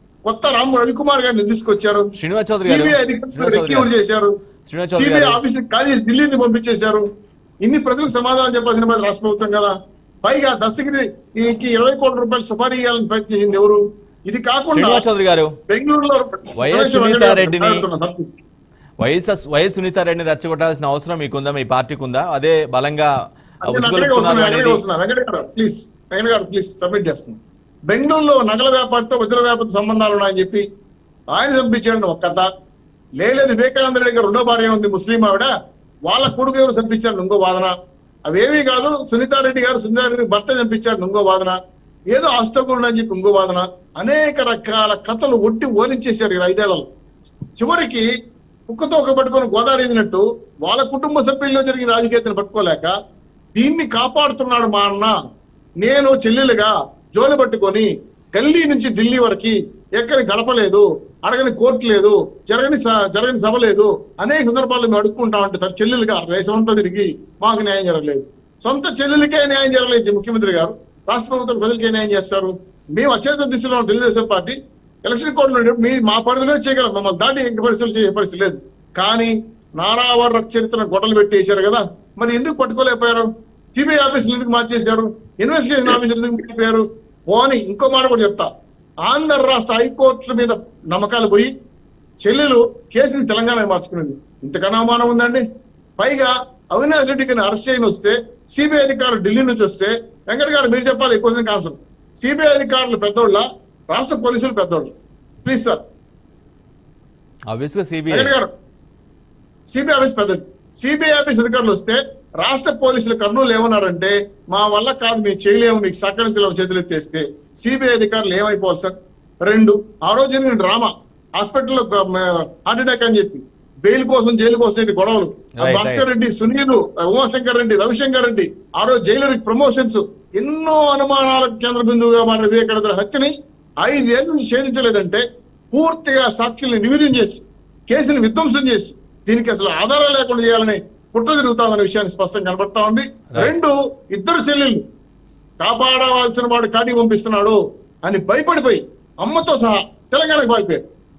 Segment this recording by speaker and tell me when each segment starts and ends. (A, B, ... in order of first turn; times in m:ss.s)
0:00.2-0:04.3 A
0:02.2-0:03.9 B
0:04.7-0:05.4 B
0:04.9-0:07.0 A
0:07.6-0:09.7 A
0:10.2-0:15.0 A
0:14.7-0:15.5 B
0:15.7-0:18.3 A
0:16.6-0:17.9 B
0:19.0-0:23.1 B
0:23.6-0:24.8 B
0:23.6-0:27.4 A
0:27.9-0:30.6 A
0:31.3-0:32.5 A
0:33.2-0:35.5 A
0:36.1-0:37.7 A
0:38.3-0:41.6 A
0:42.1-0:46.9 A
0:47.6-0:48.0 A
0:48.7-0:52.9 A
0:53.5-0:55.1 A
0:55.8-1:28.5 A
1:29.1-1:31.5 A
1:32.2-1:35.4 A
1:36.0-1:45.8 A
1:47.5-1:48.3 B
1:48.1-1:48.5 A
1:49.7-1:58.9 A
1:59.4-2:13.3 A
2:05.6-2:06.0 B
2:13.8-2:24.8 A
2:25.6-2:30.8 A